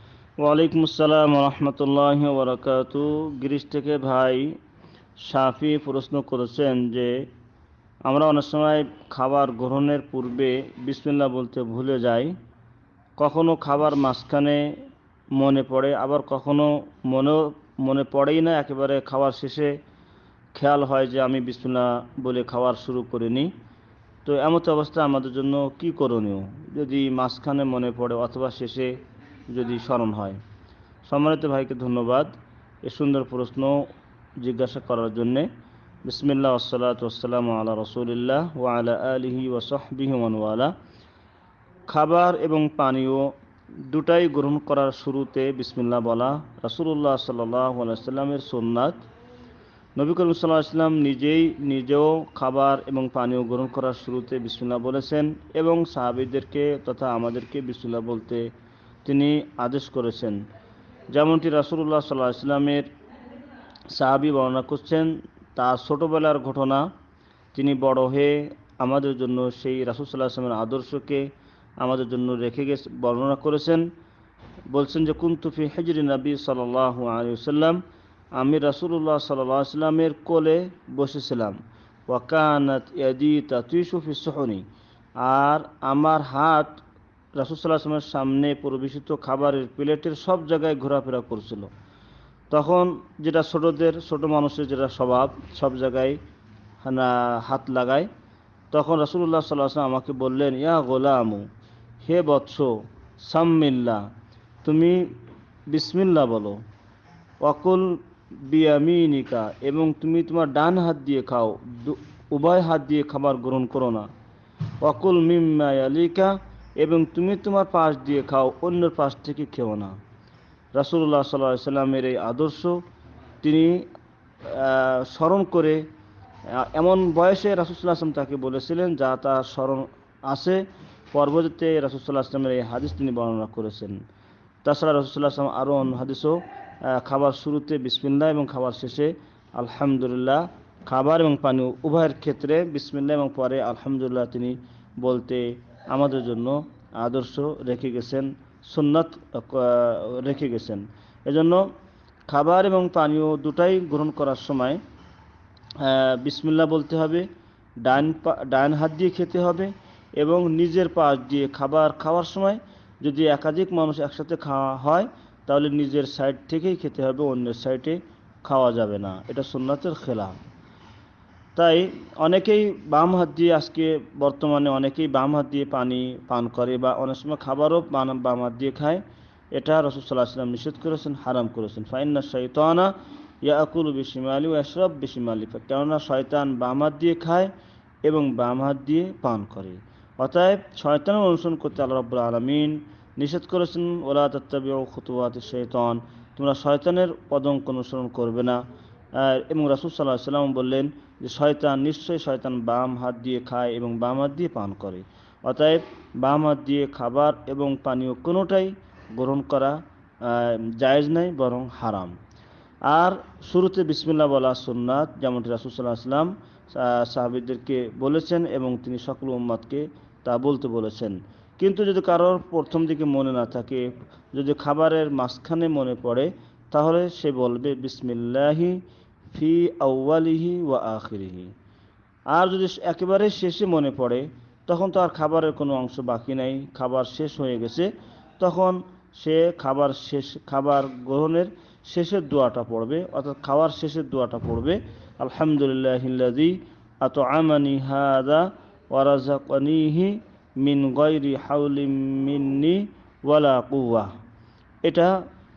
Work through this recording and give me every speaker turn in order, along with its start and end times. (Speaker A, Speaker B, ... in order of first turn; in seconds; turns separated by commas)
Speaker A: 0.4-4.5, Speaker A: 5.2-7.2, Speaker A: 8.1-12.3, Speaker A: 13.2-14.7, Speaker A: 15.4-19.8, Speaker A: 20.5-23.5, Speaker A: 24.2-28.9, Speaker A: 29.5-30.4, Speaker A: 31.1-32.3, Speaker A: 32.8-33.8, Speaker A: 34.4-35.5, Speaker A: 36.0-40.7, Speaker A: 41.9-43.3, Speaker A: 43.9-49.0, Speaker A: 50.0-58.5, Speaker A: 59.0-60.4, Speaker A: 61.1-62.9, Speaker A: 64.0-66.9, Speaker A: 67.5-71.3, Speaker A: 71.8-73.8, Speaker A: 74.7-77.8, Speaker A: 78.3-81.6, Speaker A: 82.1-84.6, Speaker A: 85.2-86.8, Speaker A: 87.4-91.7, Speaker A: 92.5-96.2, Speaker A: 96.8-98.1, Speaker A: 98.7-101.5, Speaker A: 102.0-104.0, Speaker A: 104.6-105.0, Speaker A: 105.7-106.6, Speaker A: 107.4-107.9, Speaker A: 108.5-114.1, Speaker A: 114.8-120.0, Speaker A: 120.8-122.8, Speaker A: 123.4-123.8, Speaker A: 124.5-125.8, Speaker A: 126.5-130.6, Speaker A: 131.1-133.9, Speaker A: 134.6-136.4, Speaker A: 136.9-151.7, Speaker A: 152.3-154.8, Speaker A: 155.8-157.3, Speaker A: 157.8-170.3, Speaker A: 171.6-179.0, Speaker A: 179.6-182.9, Speaker A: 183.4-187.5, Speaker A: 188.1-198.6, Speaker A: 199.2-212.2, Speaker A: 212.9-228.8, Speaker A: 229.3-231.5, Speaker A: 232.3-237.9, Speaker A: 238.4-254.1, Speaker A: 254.8-255.2